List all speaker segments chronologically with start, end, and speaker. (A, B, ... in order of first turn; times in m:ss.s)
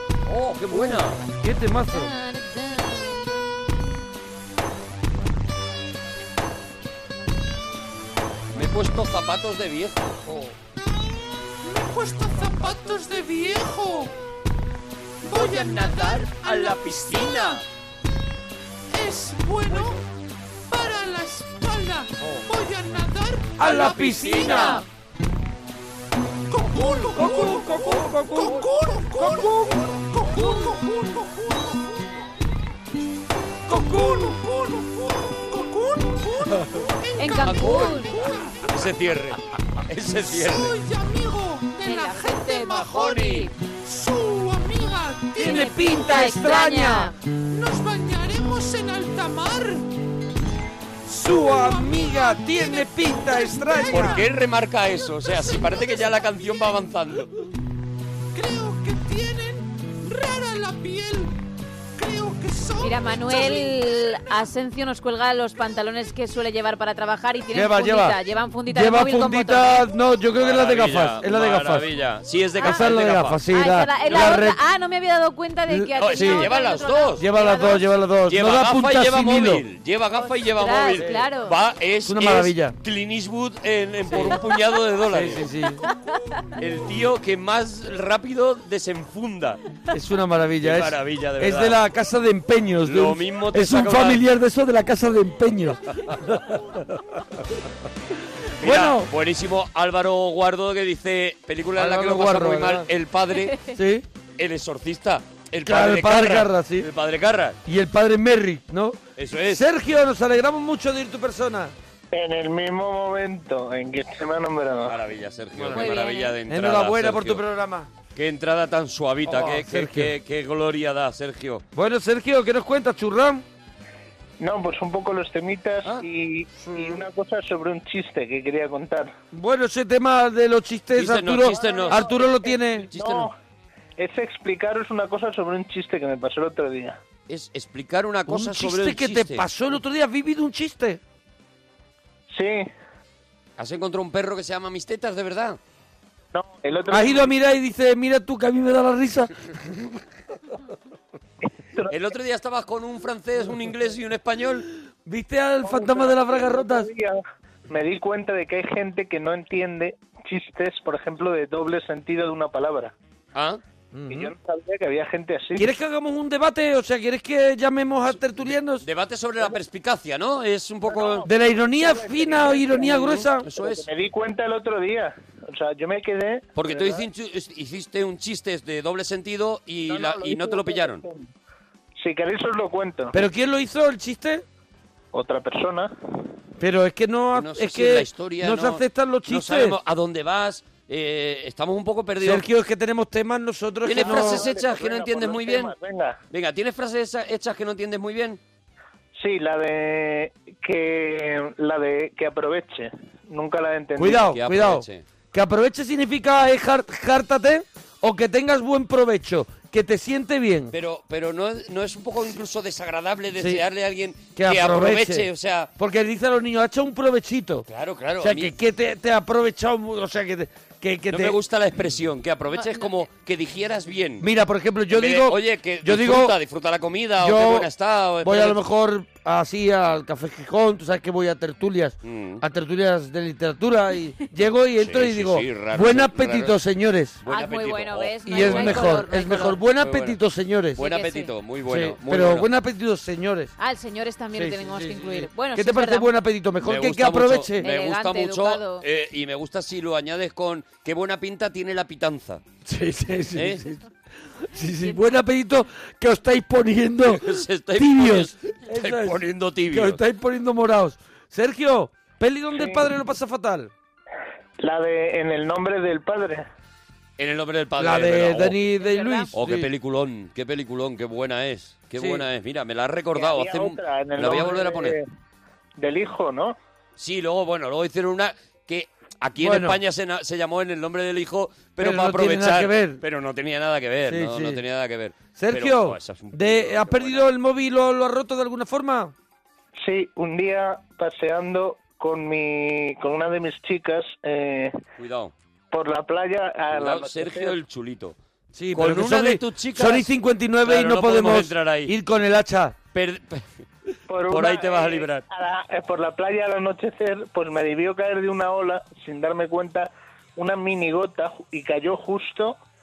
0:00.2-0:01.2 A
0:00.7-0:02.1 B
0:01.9-0:03.2 C
0:08.5-0:10.5 A
0:11.6-0:14.1 D
0:15.2-0:17.6 A
0:15.2-0:17.6 D
0:18.9-0:20.0 D
0:19.7-0:19.9 A
0:20.7-0:24.8 D
0:23.6-0:24.8 B
0:23.8-0:24.8 A
0:24.4-0:24.8 C
0:26.5-0:32.0 D
0:27.2-0:29.8 B
0:30.4-0:30.8 C
0:33.7-0:38.7 D
0:33.7-0:34.4 B
0:37.2-0:38.3 C
0:37.4-0:38.0 A
0:38.7-0:40.8 A
0:40.2-0:45.9 D
0:41.8-0:43.5 C
0:42.9-0:43.2 A
0:45.4-0:47.1 B
0:45.4-0:47.1 C
0:47.5-0:49.9 D
0:51.1-0:54.2 D
0:51.1-0:54.2 B
0:53.9-0:57.3 A
0:55.2-0:56.8 D
0:58.3-1:01.3 D
1:02.0-1:04.5 D
1:02.8-1:09.8 C
1:07.5-1:08.2 B
1:08.7-1:11.9 B
1:10.3-1:13.4 A
1:12.6-1:14.6 B
1:13.5-1:17.8 C
1:15.7-1:16.5 B
1:16.0-1:17.2 A
1:17.2-1:19.6 B
1:18.3-1:25.5 A
1:20.2-1:21.5 C
1:22.0-1:22.7 B
1:24.1-1:24.4 B
1:25.1-1:25.8 B
1:26.6-1:29.6 A
1:29.9-1:36.5 B
1:30.6-1:31.8 A
1:32.8-1:34.2 A
1:38.6-1:43.7 A
1:38.6-1:39.1 B
1:41.8-1:42.9 B
1:43.6-1:44.0 B
1:44.4-1:47.6 A
1:45.6-1:46.9 B
1:47.6-1:49.0 B
1:49.2-1:49.6 A
1:49.5-1:51.7 B
1:52.1-1:55.0 E
1:54.8-1:57.4 A
1:55.5-1:55.9 B
1:55.7-1:56.3 C
1:56.5-1:57.9 B
1:58.1-2:01.6 A
1:59.2-2:00.1 B
2:01.7-2:03.4 B
2:04.4-2:09.1 E
2:09.3-2:12.9 B
2:10.9-2:12.3 A
2:11.4-2:13.3 E
2:12.9-2:13.3 A
2:14.0-2:17.0 E
2:17.3-2:19.4 A
2:18.3-2:21.0 B
2:22.3-2:22.7 E
2:23.6-2:25.6 A
2:26.3-2:27.3 E
2:26.9-2:29.3 B
2:31.9-2:34.6 A
2:35.0-2:36.9 B
2:35.6-2:42.9 E
2:43.3-2:43.6 A
2:43.9-2:44.3 B
2:44.1-2:45.7 E
2:45.6-2:48.8 B
2:48.8-2:51.3 A
2:50.9-2:57.0 E
2:51.2-2:53.5 B
2:52.8-2:53.9 A
2:56.5-3:01.0 A
2:59.9-3:01.3 E
3:02.0-3:03.2 E
3:03.1-3:04.4 B
3:05.1-3:05.9 E
3:06.6-3:09.8 B
3:07.3-3:12.4 A
3:12.2-3:14.4 B
3:13.8-3:15.7 A
3:13.9-3:16.2 E
3:16.3-3:18.4 A
3:19.2-3:24.2 E
3:24.0-3:30.7 B
3:24.1-3:25.0 A
3:30.7-3:35.7 A
3:33.4-3:33.6 B
3:34.4-3:35.3 B
3:35.8-3:37.6 B
3:37.7-3:38.5 A
3:38.2-3:41.4 B
3:41.1-3:44.3 A
3:44.2-3:46.3 B
3:44.9-3:48.6 A
3:47.2-3:47.7 B
3:48.2-3:57.2 B
3:52.0-3:52.4 A
3:54.8-3:56.6 A
3:57.2-4:00.2 A
3:57.3-3:59.5 C
3:58.3-4:00.8 B
4:00.8-4:02.5 A
4:00.8-4:01.3 C
4:01.7-4:03.5 B
4:03.6-4:06.1 C
4:04.3-4:07.7 B
4:06.6-4:12.4 A
4:07.6-4:08.8 C
4:12.6-4:13.9 B
4:13.3-4:13.6 A
4:14.4-4:23.7 B
4:17.1-4:20.0 A
4:22.6-4:22.8 E
4:24.6-4:26.4 E
4:27.2-4:28.6 A
4:27.8-4:29.7 B
4:28.8-4:29.3 C
4:29.3-4:35.0 A
4:32.0-4:32.2 B
4:33.1-4:35.0 E
4:35.8-4:36.6 E
4:37.0-4:47.3 A
4:39.4-4:39.8 B
4:41.8-4:43.0 B
4:44.0-4:44.6 B
4:45.4-4:49.1 B
4:49.8-4:54.7 E
4:55.0-4:55.3 A
4:55.7-4:57.6 E
4:56.7-4:58.2 A
4:58.5-5:02.8 B
4:58.7-5:00.1 A
5:00.6-5:01.9 A
5:02.9-5:03.4 A
5:04.1-5:12.6 E
5:04.3-5:05.2 A